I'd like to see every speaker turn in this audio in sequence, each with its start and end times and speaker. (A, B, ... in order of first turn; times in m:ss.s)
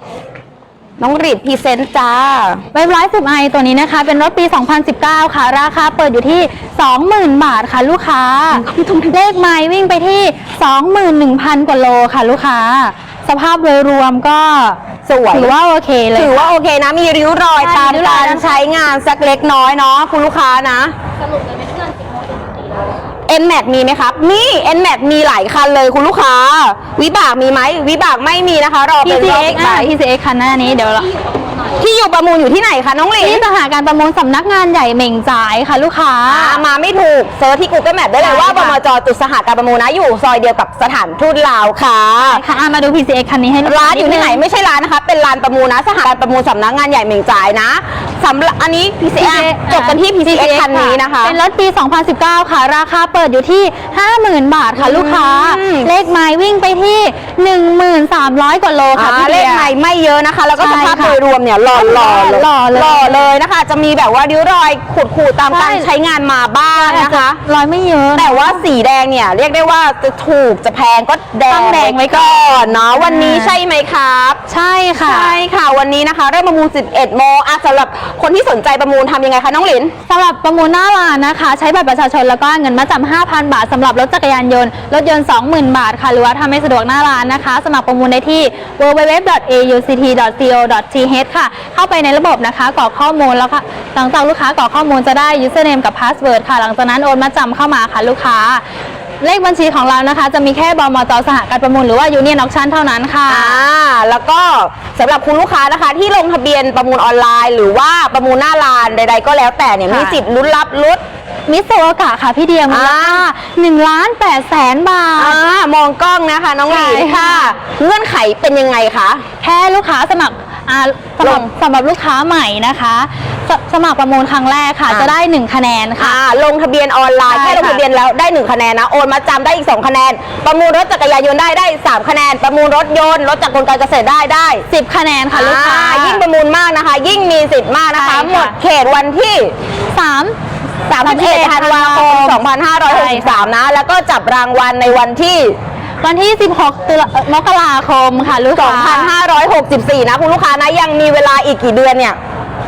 0:01.0-0:02.6 A
0:02.7-0:16.5 B
0:08.5-0:09.2 A
0:15.0-0:15.5 A
0:16.2-0:20.9 A
0:17.6-0:18.7 B
0:21.2-0:23.1 C
0:23.3-0:29.9 A
0:29.0-0:31.0 B
0:30.5-0:31.9 C
0:31.8-0:33.4 A
0:33.2-0:36.6 B
0:36.3-0:42.4 A
0:38.2-0:38.8 B
0:42.2-0:44.4 B
0:43.6-0:51.4 A
0:49.2-0:59.7 B
0:54.8-0:55.9 A
0:58.9-1:07.4 A
1:00.6-1:01.2 B
1:01.7-1:03.3 B
1:05.5-1:05.9 B
1:06.7-1:08.6 B
1:08.1-1:14.4 A
1:11.5-1:13.6 B
1:14.5-1:15.4 B
1:15.0-1:19.9 A
1:20.1-1:38.6 B
1:39.2-1:43.6 B
1:43.3-1:51.0 A
1:49.9-1:50.2 B
1:51.5-1:55.4 B
1:52.7-1:53.2 A
1:55.2-1:59.2 A
1:56.7-1:57.6 B
1:59.4-2:06.2 B
2:01.2-2:01.5 A
2:04.9-2:05.1 A
2:06.0-2:14.6 A
2:07.3-2:07.8 B
2:14.7-2:16.2 B
2:15.3-2:19.5 A
2:17.9-2:18.6 B
2:19.9-2:20.4 B
2:20.8-2:25.6 A
2:20.9-2:23.4 B
2:26.0-2:29.1 B
2:28.5-2:32.2 A